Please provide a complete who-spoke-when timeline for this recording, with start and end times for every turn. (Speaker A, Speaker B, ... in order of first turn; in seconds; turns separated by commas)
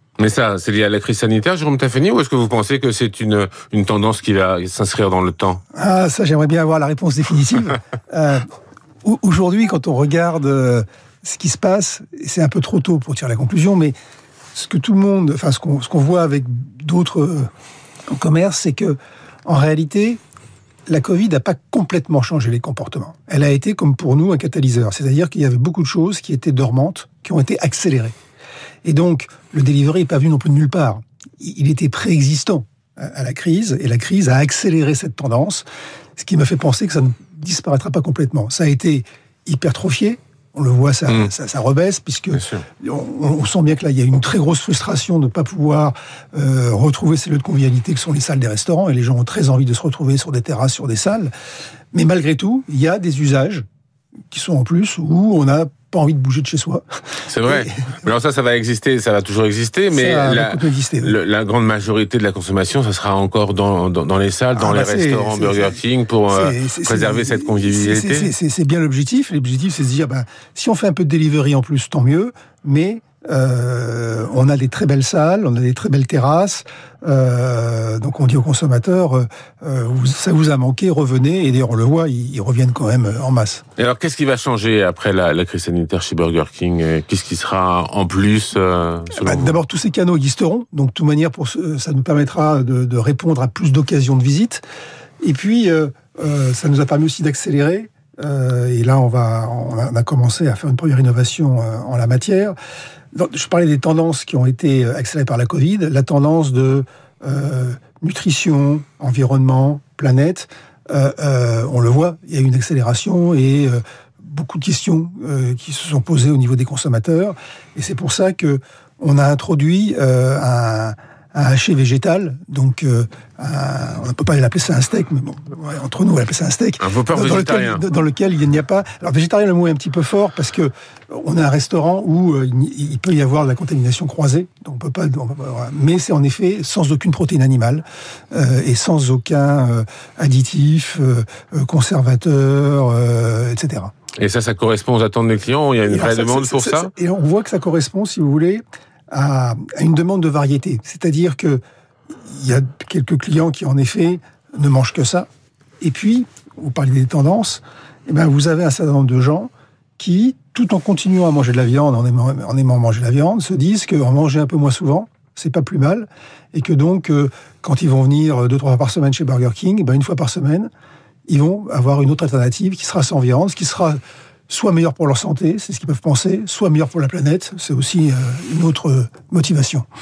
Speaker A: 0.2-5.6, Speaker B: 5.7-8.5, Speaker B: 9.0-13.9, Speaker B: 14.5-17.5, Speaker B: 18.1-20.2, Speaker B: 20.9-28.1, Speaker B: 28.8-35.6, Speaker B: 36.2-51.3, Speaker A: 42.3-42.6, Speaker B: 51.9-53.6, Speaker B: 54.3-56.8, Speaker A: 57.3-68.3, Speaker B: 57.4-58.0, Speaker B: 59.9-61.2, Speaker B: 64.5-83.6, Speaker A: 83.8-89.6, Speaker B: 89.1-94.6, Speaker B: 95.2-102.5, Speaker B: 103.1-143.9, Speaker A: 126.8-127.8, Speaker A: 144.2-146.9, Speaker B: 145.9-151.6, Speaker B: 152.3-155.3, Speaker B: 155.8-170.7, Speaker B: 171.3-179.8